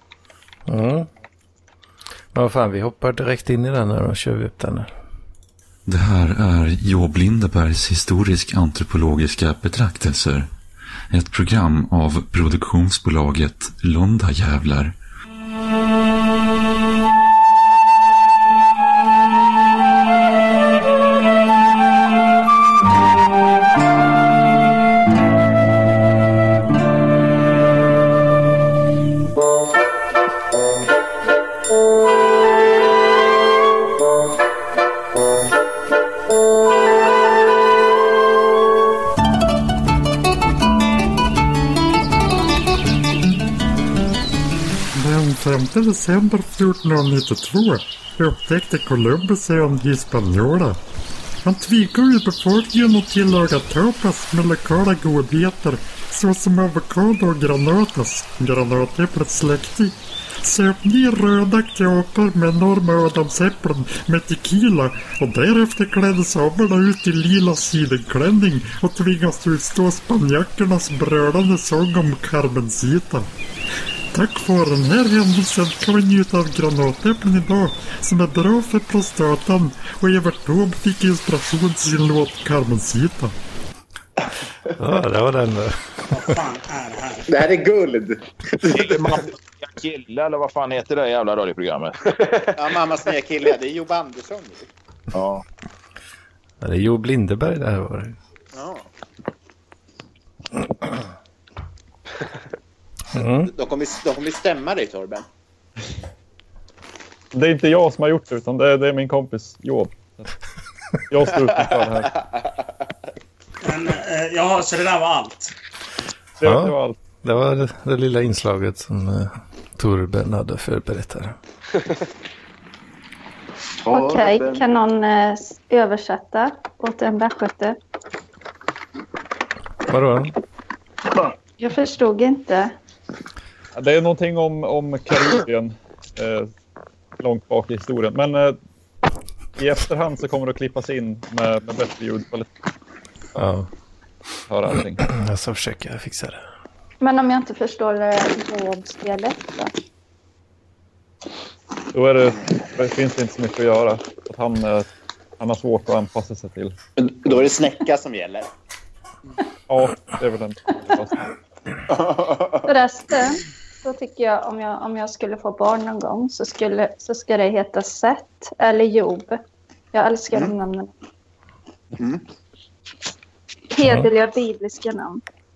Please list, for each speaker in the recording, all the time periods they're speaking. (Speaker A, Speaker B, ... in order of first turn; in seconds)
Speaker A: 0.7-1.1, 2.3-4.9, 84.8-85.8, 96.6-98.2, 103.1-103.5, 116.4-121.3, 129.9-130.3, 143.3-143.7, 145.0-146.4
Speaker B: 5.8-10.5, 11.1-14.9
Speaker C: 44.9-50.8, 51.4-73.3, 74.1-83.3
Speaker D: 86.1-87.2, 113.6-115.5
Speaker E: 87.3-89.0, 92.5-94.7, 98.5-98.9, 103.4-105.2, 123.8-124.6, 157.0-158.5, 161.9-162.7, 172.0-172.2
Speaker F: 88.7-92.0, 95.1-95.4
Speaker G: 107.3-110.3, 111.1-112.1, 116.4-117.0, 133.8-136.5, 137.2-138.6, 139.6-142.5, 144.5-145.0, 151.9-154.9, 155.4-156.7, 159.7-161.2
Speaker H: 123.9-127.8, 131.6-132.7, 147.0-149.7, 162.7-169.4, 169.9-170.9, 173.7-175.2